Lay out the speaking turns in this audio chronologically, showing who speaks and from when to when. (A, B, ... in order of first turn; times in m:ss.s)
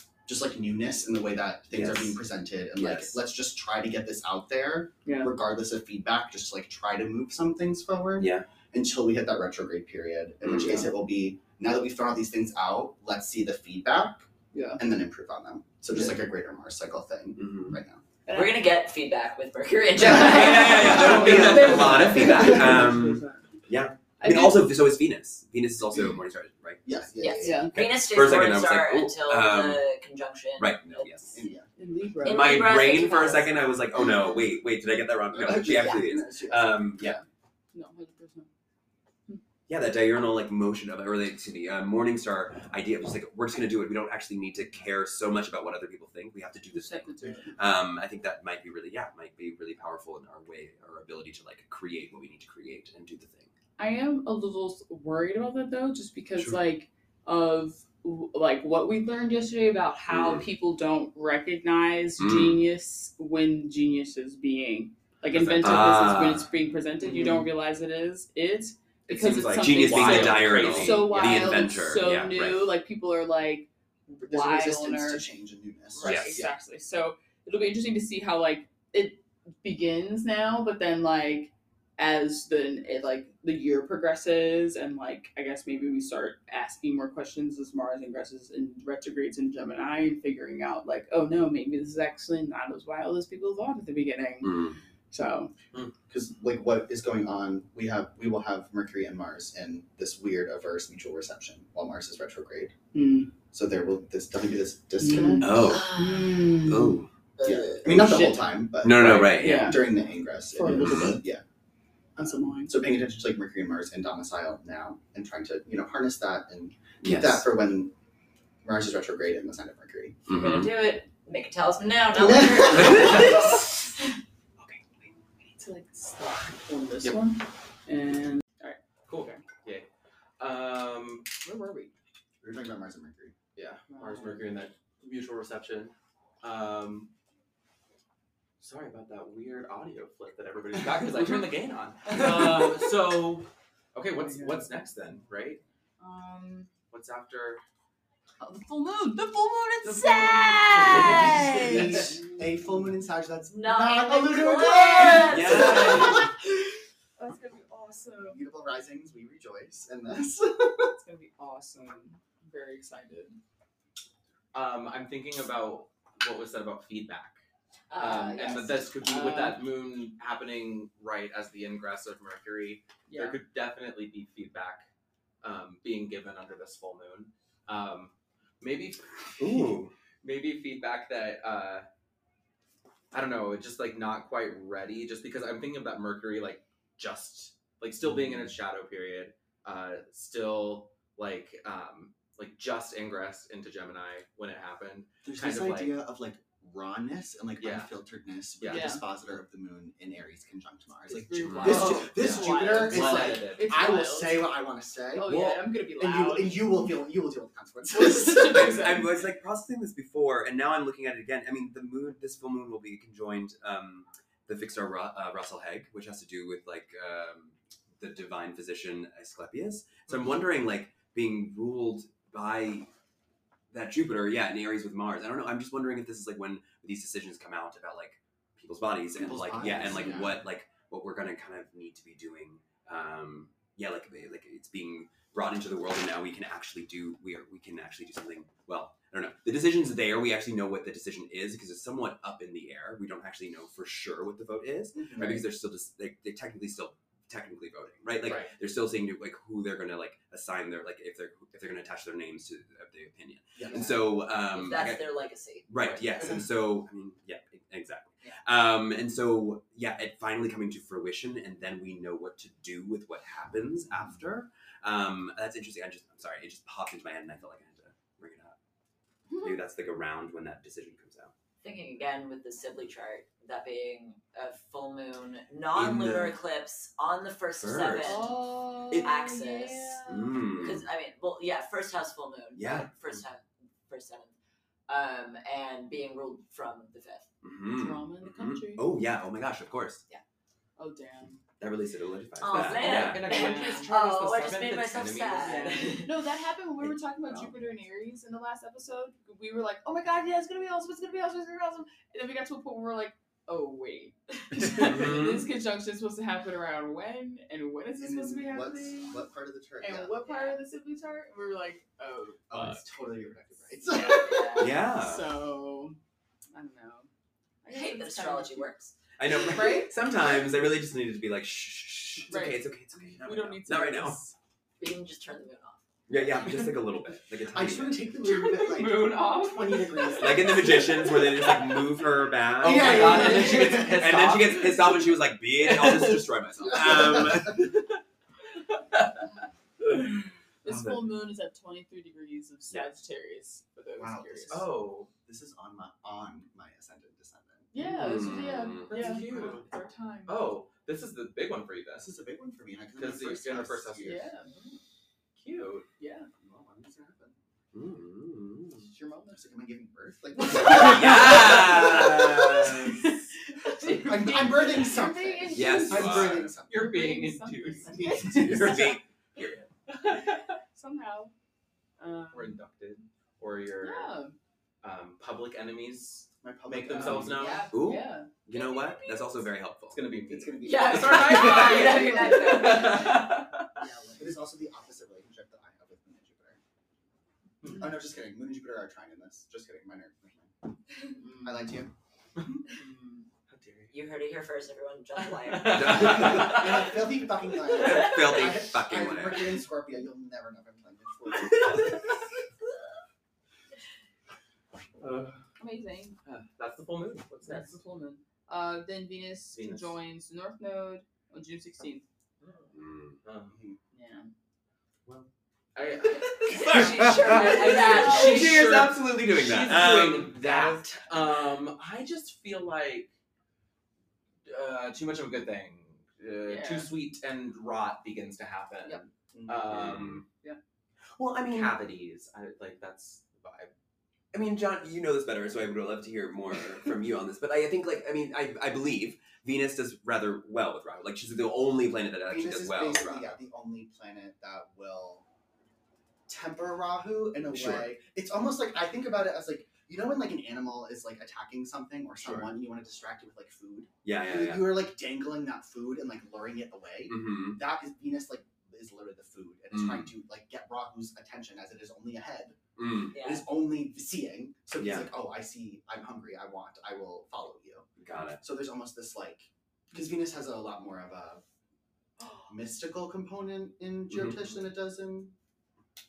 0:00.2-0:18.0 A
0:01.7-0:02.2 B
0:02.7-0:03.2 B
0:05.1-0:05.3 C
0:08.2-0:08.5 B
0:10.4-0:10.9 B
0:14.5-0:14.8 C
0:17.4-0:17.8 B
0:18.2-0:18.6 C
0:18.3-0:21.4 D
0:20.0-0:26.9 B
0:20.1-0:23.5 C
0:21.0-0:22.3 E
0:22.4-0:22.8 A
0:24.2-0:24.6 C
0:26.8-0:27.7 A
0:27.2-0:31.4 D
0:27.4-0:27.7 C
0:27.7-0:29.8 B
0:30.6-0:31.4 B
0:31.3-0:31.7 A
0:31.8-0:32.8 C
0:32.2-0:33.6 D
0:32.2-0:37.2 B
0:35.3-0:37.1 A
0:37.0-0:38.5 C
0:39.7-0:53.5 B
0:46.7-0:47.6 C
0:53.8-1:15.2 C
1:00.1-1:00.5 B
1:02.2-1:02.7 B
1:05.3-1:06.0 E
1:05.6-1:06.5 B
1:09.1-1:11.3 E
1:09.2-1:12.8 B
1:14.2-1:16.3 A
1:15.9-1:35.5 C
1:16.0-1:16.4 B
1:16.1-1:16.5 E
1:34.4-1:34.8 B
1:36.1-1:42.8 A
1:42.9-1:43.4 C
1:43.5-1:45.5 A
1:45.0-1:47.0 C
1:45.4-1:46.0 B
1:45.7-1:46.6 D
1:46.6-1:47.1 B
1:47.4-1:47.8 D
1:47.4-1:51.4 A
1:47.8-1:48.4 C
1:48.8-1:49.8 B
1:49.3-1:49.9 C
1:50.5-1:51.2 C
1:50.6-1:51.2 B
1:52.2-1:57.9 A
1:52.2-1:52.7 C
1:57.0-1:57.5 B
1:58.6-2:00.2 A
2:00.3-2:00.7 B
2:00.3-2:03.6 D
2:02.1-2:03.4 A
2:02.7-2:03.5 B
2:05.6-2:09.4 C
2:09.1-2:09.9 E
2:10.4-2:11.3 E
2:11.4-2:11.9 C
2:12.4-2:13.4 A
2:13.6-2:17.1 E
2:13.9-2:14.5 C
2:18.6-2:25.6 E
2:22.1-2:22.7 C
2:26.0-2:26.7 C
2:26.9-2:27.6 E
2:28.4-2:32.2 C
2:29.9-2:31.4 D
2:30.8-2:31.3 E
2:30.9-2:36.3 A
2:33.5-2:36.2 D
2:35.2-2:36.3 B
2:35.5-2:38.4 C
2:38.3-2:41.0 A
2:41.0-2:43.4 C
2:44.5-2:47.4 E
2:47.9-2:48.9 D
2:48.0-2:54.9 E
2:48.9-2:49.6 C
2:53.1-2:53.4 C
2:55.4-3:01.9 E
2:59.4-2:59.9 B
3:03.1-3:16.0 E
3:15.2-3:28.9 A
3:17.6-3:17.9 E
3:18.6-3:18.9 E
3:18.6-3:19.0 C
3:21.1-3:24.5 C
3:21.4-3:22.0 B
3:21.6-3:23.9 E
3:25.1-3:26.9 C
3:27.9-3:29.2 C
3:28.4-3:42.9 B
3:43.7-4:15.1 B
3:49.1-3:50.4 A
4:04.9-4:05.4 A
4:08.2-4:08.5 E
4:13.6-4:14.1 A
4:14.5-4:15.7 D
4:15.7-4:28.6 B
4:29.3-4:29.6 C
4:29.4-4:31.3 B
4:31.6-4:38.4 D
4:35.7-4:36.4 B
4:37.6-4:38.4 B
4:38.0-4:40.4 C
4:38.9-4:44.3 D
4:40.1-4:40.9 B
4:42.6-4:42.9 B
4:44.9-4:47.3 D
4:47.4-4:50.0 B
4:47.7-4:48.9 C
4:50.8-4:51.4 C
4:51.6-4:53.4 B
4:52.4-4:56.2 D
4:52.5-4:56.0 E
4:53.2-4:53.9 C
4:55.3-5:09.2 C
4:56.8-4:57.5 B
5:04.6-5:05.6 B
5:08.0-5:10.2 A
5:09.8-5:12.7 C
5:10.2-5:10.6 D
5:12.5-5:14.6 A
5:13.9-5:14.7 D
5:13.9-5:16.0 C
5:14.6-5:15.3 B
5:16.5-5:17.1 C
5:17.6-5:18.7 C
5:17.7-5:18.9 D
5:19.2-5:24.2 B
5:19.2-5:20.6 C
5:22.2-5:22.6 C
5:23.2-5:24.4 C
5:24.8-5:25.8 D
5:26.1-5:28.1 B
5:27.5-5:30.8 A
5:28.4-5:31.6 C
5:28.7-5:29.4 E
5:30.2-5:37.8 B
5:32.6-5:35.1 E
5:32.6-5:34.0 A
5:33.0-5:33.3 C
5:35.6-5:36.1 E
5:39.8-5:44.7 C
5:40.6-5:41.1 B
5:42.7-5:43.0 B
5:44.0-5:47.7 A
5:44.5-5:45.1 E
5:47.7-5:50.4 C
5:47.8-5:49.2 B
5:48.9-5:49.7 E
5:50.2-5:52.1 E
5:52.0-5:54.2 A
5:53.0-5:54.6 E
5:54.0-5:54.5 C
5:55.4-5:55.9 E
5:56.0-5:56.3 C
5:56.4-5:57.4 A
5:57.7-5:58.9 B
5:58.8-5:59.4 C
5:59.3-6:02.9 A
6:00.5-6:03.2 B
6:00.7-6:09.0 C
6:03.8-6:06.9 A
6:05.5-6:06.5 B
6:05.9-6:07.9 E
6:07.9-6:08.7 A
6:08.0-6:09.7 B
6:09.9-6:11.3 C
6:12.0-6:12.6 C
6:12.3-6:14.1 E
6:13.8-6:14.4 C
6:14.8-6:17.7 E
6:16.4-6:17.6 A
6:16.9-6:18.4 C
6:17.7-6:20.0 B
6:18.6-6:19.0 D
6:19.9-6:23.5 E
6:20.3-6:22.3 A
6:20.6-6:23.0 D
6:21.3-6:23.8 C
6:23.9-6:26.6 A
6:27.7-6:30.6 A
6:31.2-6:31.7 C
6:31.4-6:31.9 A
6:32.4-6:32.8 E
6:32.7-6:33.2 C
6:33.5-6:33.9 E
6:33.9-6:36.2 D
6:35.4-6:36.9 E
6:35.7-6:36.7 B
6:35.9-6:42.0 A
6:37.7-6:39.6 B
6:45.0-6:45.4 E
6:45.6-6:46.2 C
6:46.2-6:47.7 E
6:47.4-6:52.0 C
6:49.5-6:49.9 E
6:52.4-6:52.7 E
6:52.7-6:53.2 B
6:53.2-6:53.6 E
6:53.5-6:53.8 A
6:53.9-6:54.3 C
6:55.7-7:03.1 E
6:56.3-6:58.5 D
6:56.5-7:00.7 B
6:57.7-6:58.5 C
7:04.4-7:10.2 E
7:06.4-7:06.9 C
7:09.3-7:09.8 A
7:09.7-7:10.2 B
7:11.2-7:11.8 B
7:11.5-7:13.7 E
7:14.3-7:23.3 B
7:22.3-7:25.2 A
7:26.3-7:42.6 A
7:27.5-7:27.9 B
7:32.2-7:32.5 B
7:34.0-7:34.8 B
7:37.1-7:37.6 B
7:39.7-7:40.1 B
7:42.8-7:43.2 B
7:43.1-7:43.4 D
7:43.1-7:47.9 A
7:44.8-7:45.1 B
7:48.0-7:48.4 B
7:48.4-7:51.4 A
7:52.5-7:55.3 A
7:54.1-7:54.5 B